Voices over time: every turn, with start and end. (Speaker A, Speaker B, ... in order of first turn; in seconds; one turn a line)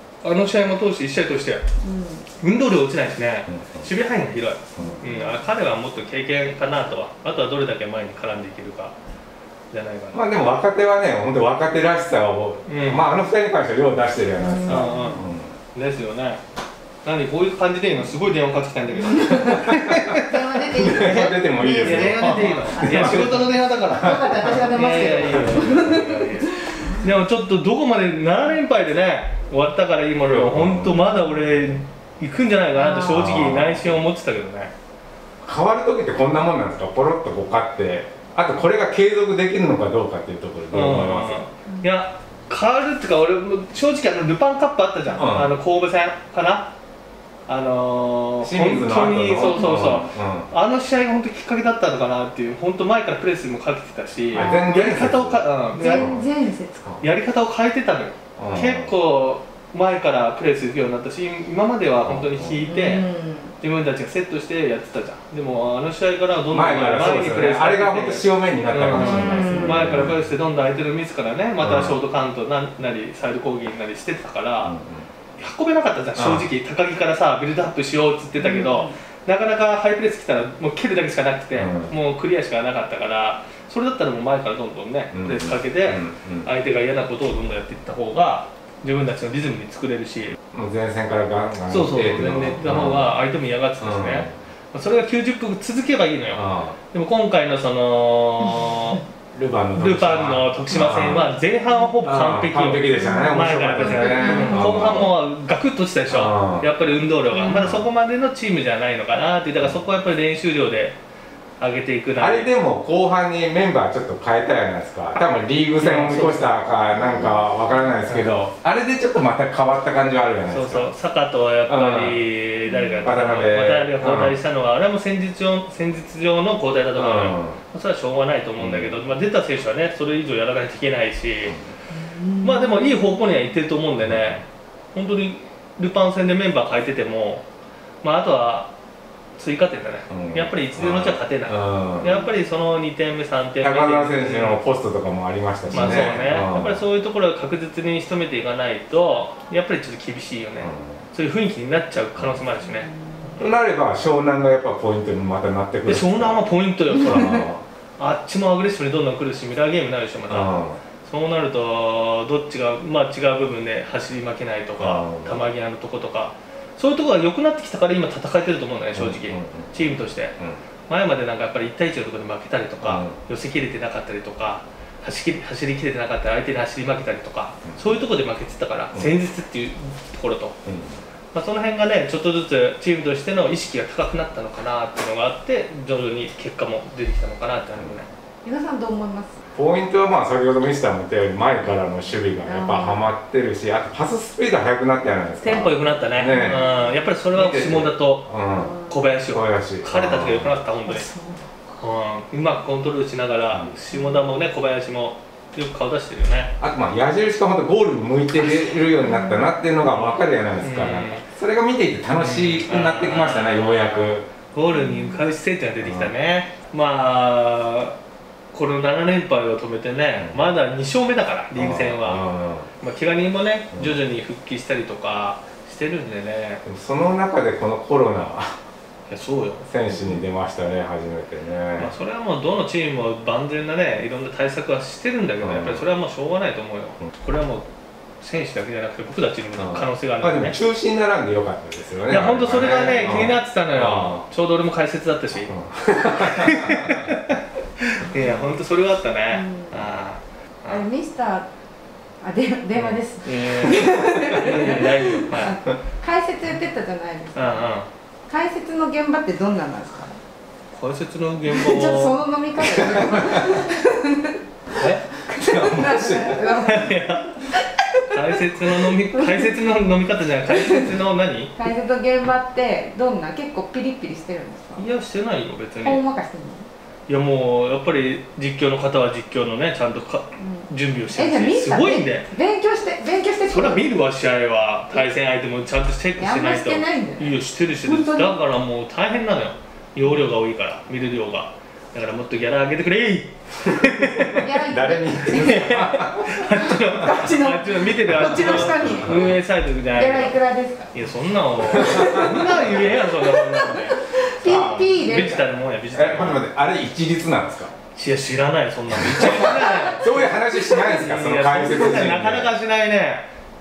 Speaker A: 0.2-1.6
Speaker B: 1.8-2.2
Speaker A: 2.4-8.9
Speaker C: 3.5-3.9
Speaker B: 4.8-5.4
Speaker A: 9.7-10.2
Speaker C: 10.1-15.5
Speaker A: 12.7-13.1
Speaker B: 14.4-15.2
Speaker A: 14.6-16.4
Speaker A: 17.0-34.7
Speaker B: 19.0-27.0
Speaker C: 20.7-24.4
Speaker C: 25.2-25.6
Speaker C: 30.2-31.0
Speaker B: 32.7-33.2
Speaker C: 33.1-34.0
Speaker C: 35.4-41.4
Speaker A: 40.7-46.7
Speaker C: 45.1-45.5
Speaker A: 47.5-56.1
Speaker C: 48.4-50.5
Speaker B: 49.4-49.9
Speaker C: 54.3-56.3
Speaker B: 54.3-54.9
Speaker B: 55.8-57.0
Speaker A: 57.0-63.0
Speaker C: 58.4-58.9
Speaker C: 62.0-62.6
Speaker B: 62.6-63.5
Speaker A: 63.6-74.7
Speaker C: 66.5-70.2
Speaker B: 68.9-69.9
Speaker C: 71.6-72.0
Speaker C: 74.6-75.1
Speaker A: 75.4-90.3
Speaker C: 76.1-76.5
Speaker B: 78.4-79.0
Speaker C: 81.5-81.9
Speaker C: 85.1-86.5
Speaker C: 90.5-93.2
Speaker A: 91.7-99.0
Speaker C: 93.8-94.3
Speaker C: 96.3-96.8
Speaker C: 99.3-101.3
Speaker A: 99.8-111.0
Speaker B: 100.9-101.3
Speaker C: 102.0-105.1
Speaker B: 103.0-105.1
Speaker C: 106.1-106.7
Speaker B: 107.3-107.8
Speaker A: 111.6-112.5
Speaker C: 112.2-120.9
Speaker A: 115.8-116.5
Speaker B: 116.9-117.9
Speaker A: 118.1-118.4
Speaker A: 120.5-131.6
Speaker C: 121.7-122.2
Speaker B: 122.7-123.1
Speaker C: 123.0-124.3
Speaker C: 126.9-127.6
Speaker C: 128.6-128.9
Speaker B: 131.9-133.4
Speaker A: 132.4-137.4
Speaker C: 134.0-134.4
Speaker A: 138.0-138.7
Speaker A: 139.4-144.6
Speaker C: 140.1-142.2
Speaker C: 143.6-146.8
Speaker A: 145.7-152.9
Speaker B: 145.7-146.1
Speaker C: 150.6-151.0
Speaker B: 152.6-153.4
Speaker C: 153.4-156.4
Speaker A: 155.8-170.3
Speaker C: 156.9-157.6
Speaker C: 160.3-160.8
Speaker C: 164.8-165.4
Speaker C: 168.9-169.8
Speaker A: 170.9-180.6
Speaker C: 172.8-173.2
Speaker C: 177.7-178.0
Speaker C: 180.7-181.0
Speaker A: 181.3-188.1
Speaker B: 188.4-189.4
Speaker C: 189.5-196.6
Speaker B: 192.4-193.1
Speaker A: 195.4-198.3
Speaker B: 196.2-197.0
Speaker C: 197.3-198.7
Speaker B: 198.5-199.0
Speaker A: 198.9-201.1
Speaker C: 199.3-200.6
Speaker B: 200.8-201.8
Speaker A: 201.8-206.5
Speaker B: 203.9-204.4
Speaker C: 206.6-214.3
Speaker B: 208.4-209.5
Speaker A: 209.8-211.2
Speaker A: 212.1-217.9
Speaker B: 214.7-215.2
Speaker C: 215.8-216.1
Speaker A: 218.5-222.2
Speaker C: 220.2-220.4
Speaker C: 221.5-222.7
Speaker A: 222.8-226.6
Speaker C: 223.7-224.0
Speaker C: 226.6-228.6
Speaker A: 229.1-229.6
Speaker C: 229.6-231.9
Speaker A: 231.8-237.7
Speaker C: 235.4-235.8
Speaker A: 238.2-240.6
Speaker C: 239.6-244.2
Speaker A: 242.1-245.5
Speaker C: 245.5-247.1
Speaker A: 246.1-250.8
Speaker B: 249.3-249.9
Speaker B: 250.7-251.5
Speaker B: 252.2-257.7
Speaker A: 252.7-255.5
Speaker A: 257.3-257.9
Speaker B: 258.3-260.1
Speaker A: 260.7-262.2
Speaker B: 261.5-264.4
Speaker C: 262.6-263.4
Speaker A: 264.8-265.1
Speaker B: 265.2-268.1
Speaker C: 265.3-266.4
Speaker A: 266.6-267.3
Speaker A: 268.1-271.6
Speaker B: 269.1-269.5
Speaker B: 270.5-270.9
Speaker B: 271.6-274.9
Speaker A: 274.8-276.0
Speaker B: 275.8-276.7
Speaker A: 277.1-282.3
Speaker B: 280.4-283.9
Speaker A: 283.4-294.5
Speaker B: 286.2-288.4
Speaker C: 294.2-296.3
Speaker B: 294.4-299.3
Speaker A: 295.3-300.4
Speaker C: 298.1-299.3
Speaker B: 299.9-300.9
Speaker A: 300.9-306.4
Speaker C: 301.7-302.2
Speaker B: 301.7-305.4
Speaker C: 304.4-305.4
Speaker C: 305.9-307.7
Speaker A: 307.9-313.3
Speaker C: 309.0-312.5
Speaker B: 309.2-309.9